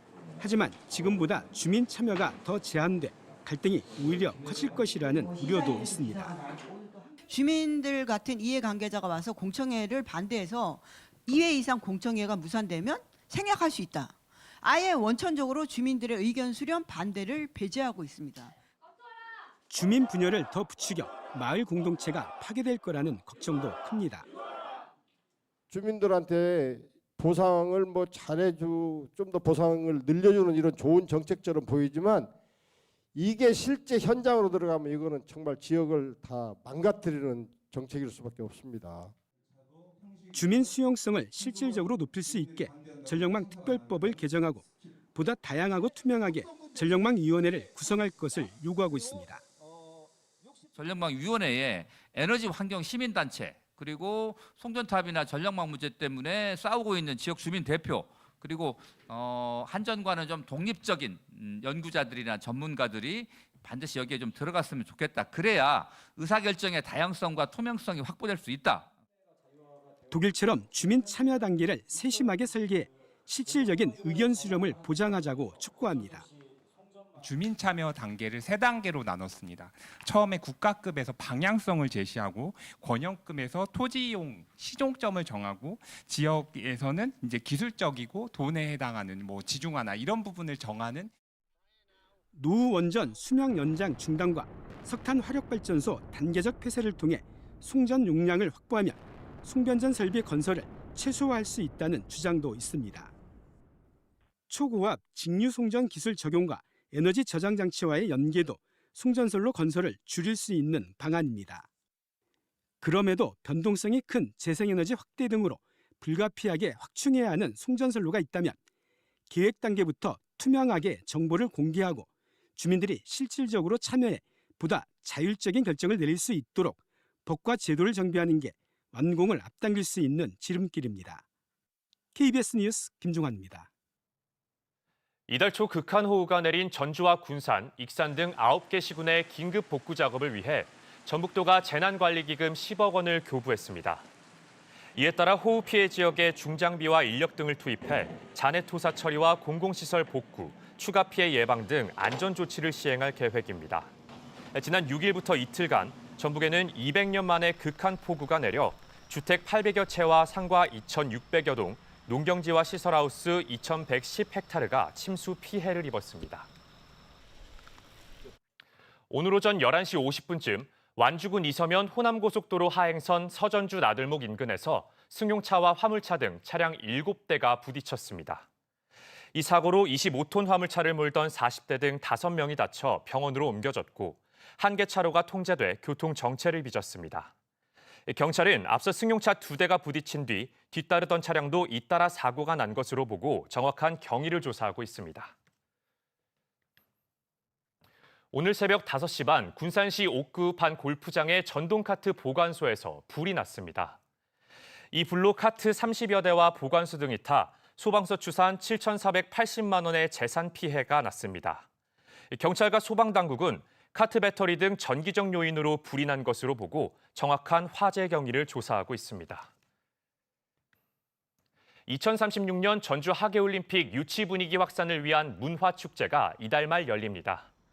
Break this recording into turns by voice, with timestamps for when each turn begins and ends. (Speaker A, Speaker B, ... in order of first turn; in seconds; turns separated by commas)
Speaker A: 0.4-6.4, Speaker B: 5.5-6.3, Speaker B: 7.3-18.5, Speaker A: 19.7-24.2, Speaker C: 25.7-32.3, Speaker C: 33.1-39.1, Speaker A: 40.3-49.4, Speaker D: 50.7-68.9, Speaker A: 70.1-76.3, Speaker E: 77.2-91.1, Speaker A: 92.3-103.1, Speaker A: 104.5-111.6, Speaker A: 112.8-118.5, Speaker A: 119.3-122.0, Speaker A: 122.6-131.2, Speaker A: 132.1-133.7, Speaker F: 135.3-144.0, Speaker F: 144.9-153.9, Speaker F: 154.5-166.5, Speaker F: 169.1-178.4, Speaker F: 179.3-187.3, Speaker F: 188.1-195.3, Speaker F: 198.3-204.0, Speaker F: 204.9-211.7, Speaker F: 212.3-219.5, Speaker F: 221.9-227.5